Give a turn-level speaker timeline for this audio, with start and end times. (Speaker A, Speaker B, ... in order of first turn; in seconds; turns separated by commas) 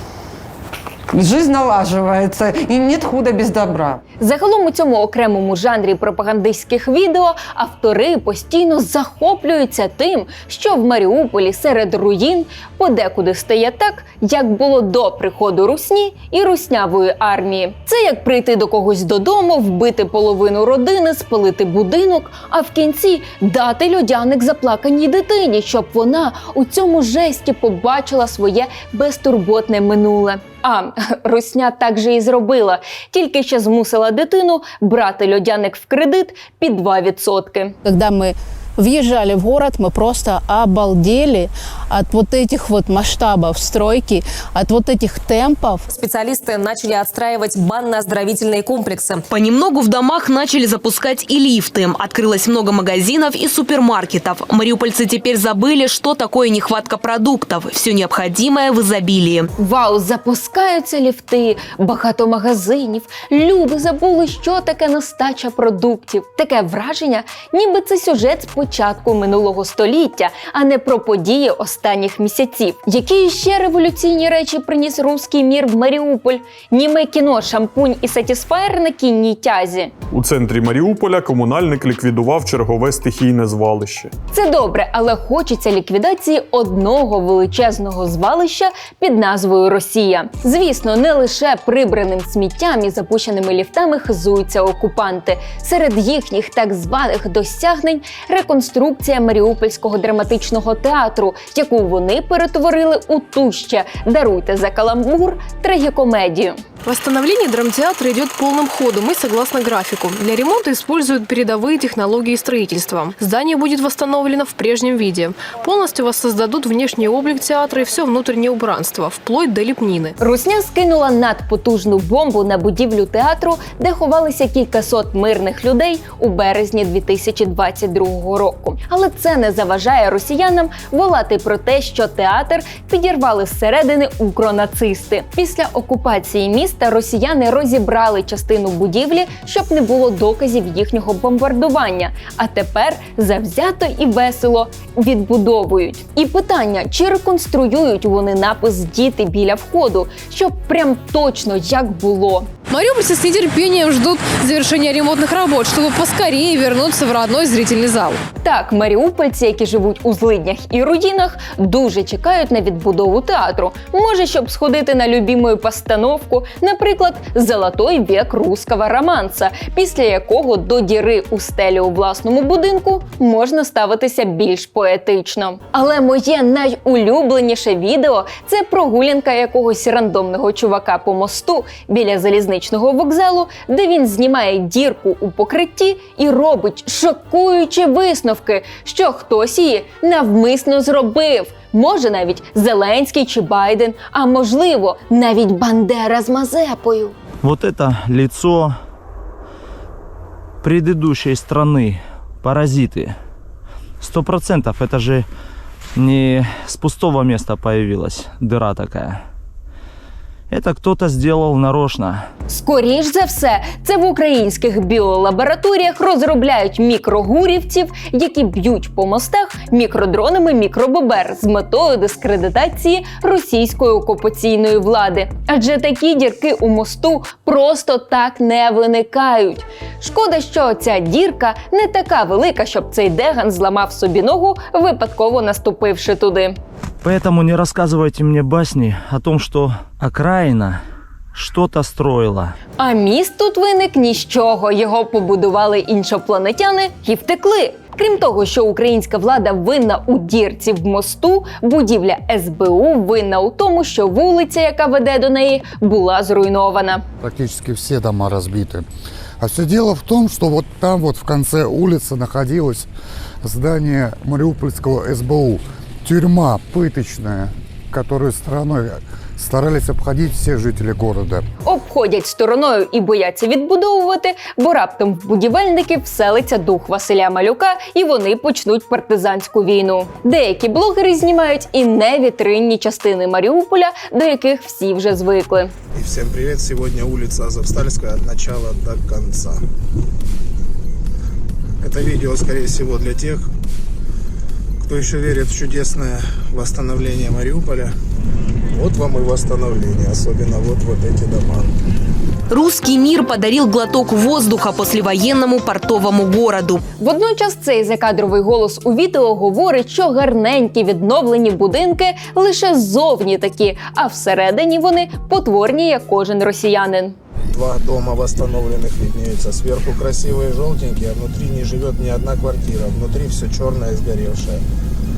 Speaker A: 1.1-4.0, Speaker B: 4.2-37.8, Speaker C: 37.9-45.9, Speaker D: 45.9-59.5, Speaker B: 59.6-79.9, Speaker E: 80.1-84.1, Speaker B: 84.3-106.6, Speaker F: 106.8-120.2, Speaker B: 120.2-152.5, Speaker F: 155.3-156.3, Speaker F: 157.6-158.2, Speaker B: 158.4-197.2, Speaker G: 197.4-198.7, Speaker G: 200.6-203.2, Speaker G: 204.0-205.3, Speaker G: 206.0-209.2, Speaker G: 210.5-212.3, Speaker B: 212.5-236.6, Speaker G: 237.0-240.8, Speaker G: 241.3-242.5, Speaker B: 242.8-257.0, Speaker H: 257.2-258.9, Speaker H: 259.4-262.9, Speaker H: 263.4-271.5, Speaker B: 271.6-285.7, Speaker I: 285.9-289.6, Speaker I: 291.8-293.5, Speaker I: 294.8-297.9, Speaker I: 298.7-301.7, Speaker D: 302.5-306.8, Speaker B: 307.0-317.2, Speaker I: 317.5-324.6